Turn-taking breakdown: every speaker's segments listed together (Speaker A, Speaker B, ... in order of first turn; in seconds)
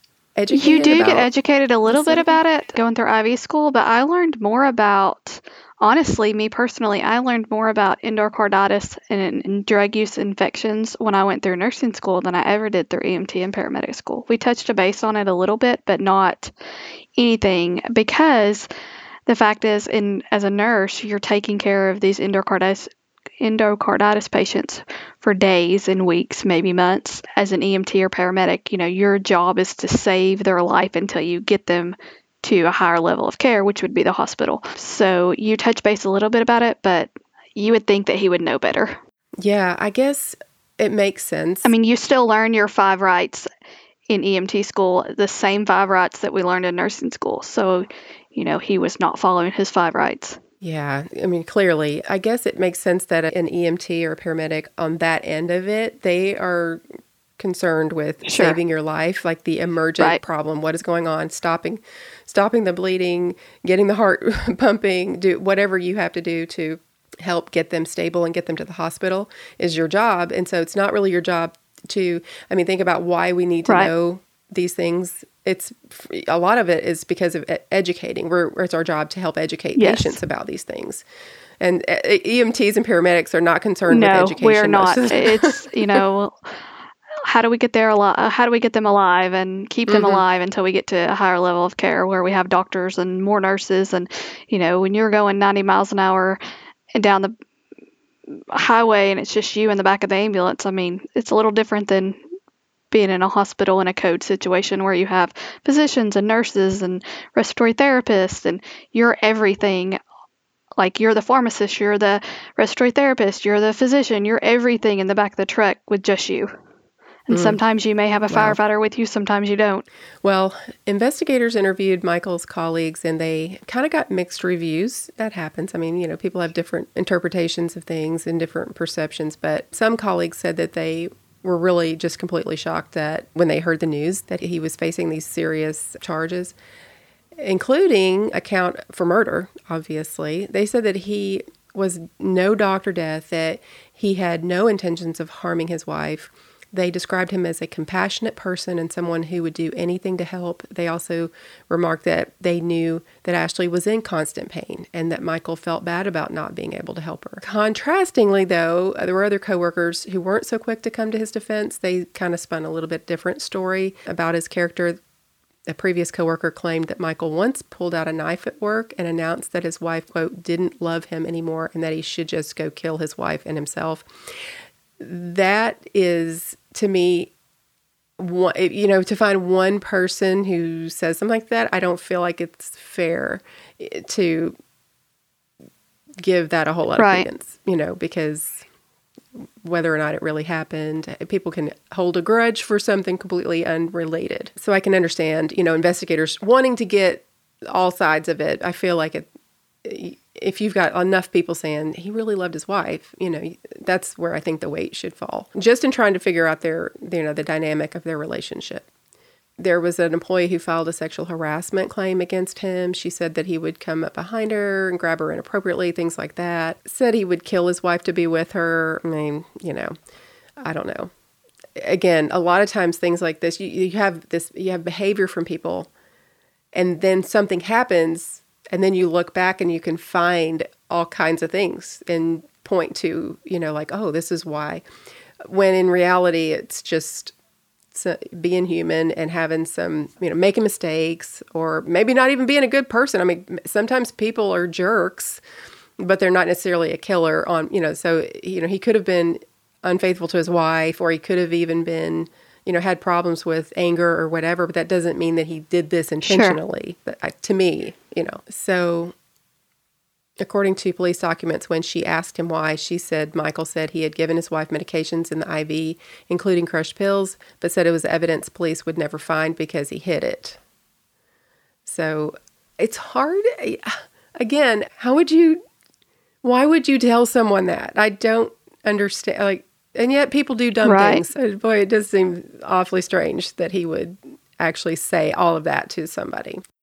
Speaker A: 0.4-1.3, 1.9-2.4, 39.4-41.7, 50.6-56.8, 57.4-81.0, 81.6-86.0, 89.9-90.2, 117.3-117.6, 118.3-118.6, 120.2-136.5, 137.4-165.0, 165.7-174.0, 175.0-177.3, 178.2-184.5, 186.2-188.6, 189.3-199.3, 199.8-208.9, 209.6-219.9, 220.6-221.1, 221.8-225.9, 226.7-234.8, 235.4-237.3, 237.9-245.4, 246.0-259.1, 260.4-270.6, 271.8-275.6, 276.4-286.6
Speaker B: 0.5-16.5, 17.2-18.7, 19.3-22.9, 23.4-39.0, 41.6-43.5, 44.1-50.4, 58.2-58.6, 79.8-80.2, 83.9-86.5, 87.2-96.4, 96.9-97.3, 98.4-102.2, 102.9-110.0, 110.8-116.5, 117.3-119.8, 187.0-187.3, 256.2-256.6, 280.8-281.2